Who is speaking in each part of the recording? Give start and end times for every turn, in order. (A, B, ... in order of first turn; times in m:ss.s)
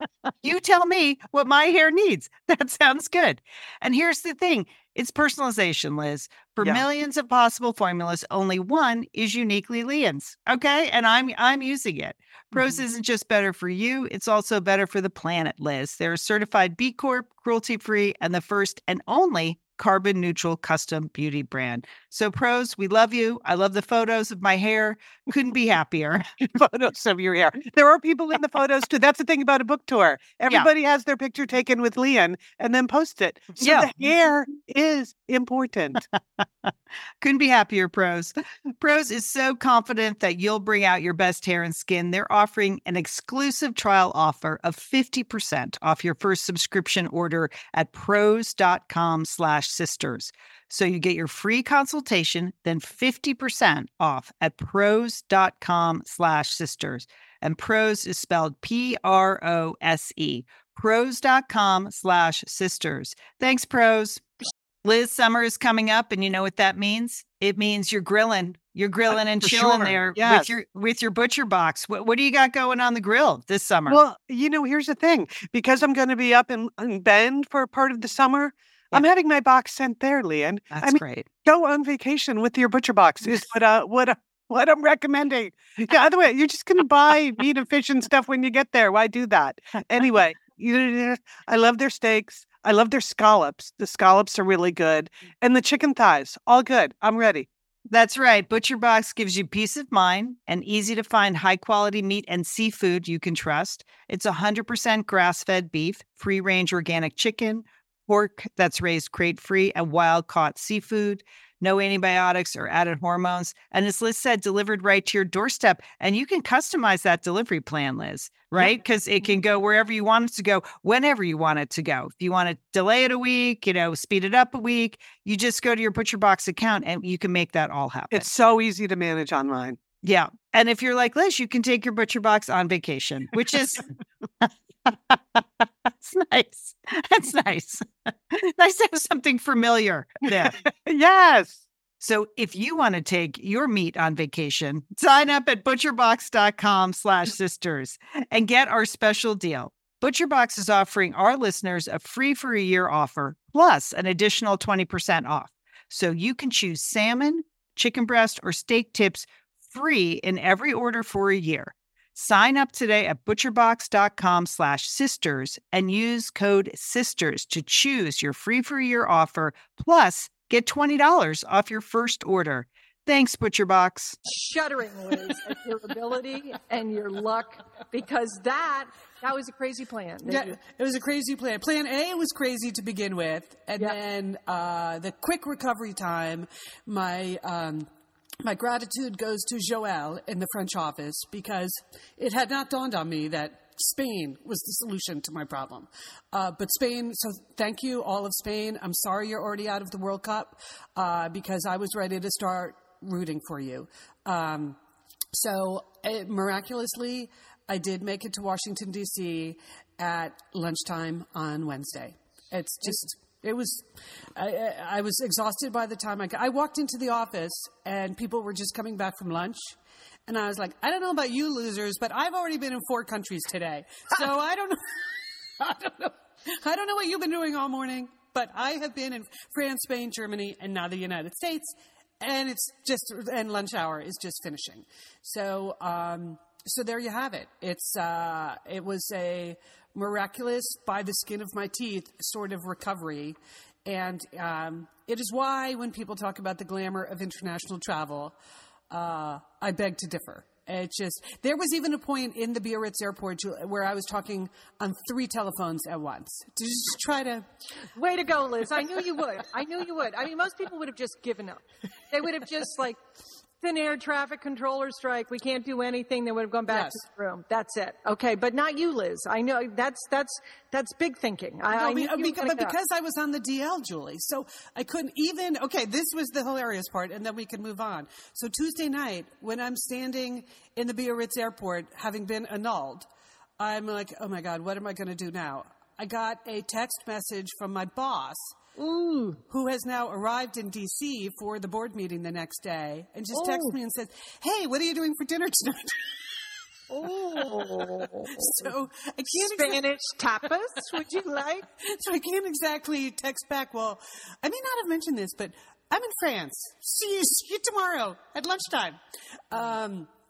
0:00.4-0:26.3 A
0:26.5-0:36.0 B
0:33.6-0:33.9 A
0:37.2-1:04.2 A
1:04.8-1:14.0 A
1:09.4-1:10.5 B
1:13.9-1:37.5 B
1:20.7-1:21.3 A
1:37.9-2:08.3 A
2:08.1-2:09.8 B
2:10.0-2:13.9 A
2:14.4-2:20.6 A
2:20.8-2:21.6 B
2:22.0-2:54.2 A
2:54.3-3:00.6 C
3:00.2-3:07.9 D
3:08.4-3:24.8 D
3:25.3-4:08.3 D
4:08.9-4:17.4 D
4:17.9-4:23.0 C
4:23.6-4:32.7 C
4:26.7-4:27.0 D
4:31.7-4:43.1 D
4:43.6-4:48.6 D
4:48.8-4:49.4 C
4:49.5-4:56.2 D
4:53.3-4:53.7 C
4:56.9-4:58.6 C
4:58.2-4:59.9 D
4:59.4-5:01.6 C
5:01.8-5:09.0 D
5:09.5-5:10.1 D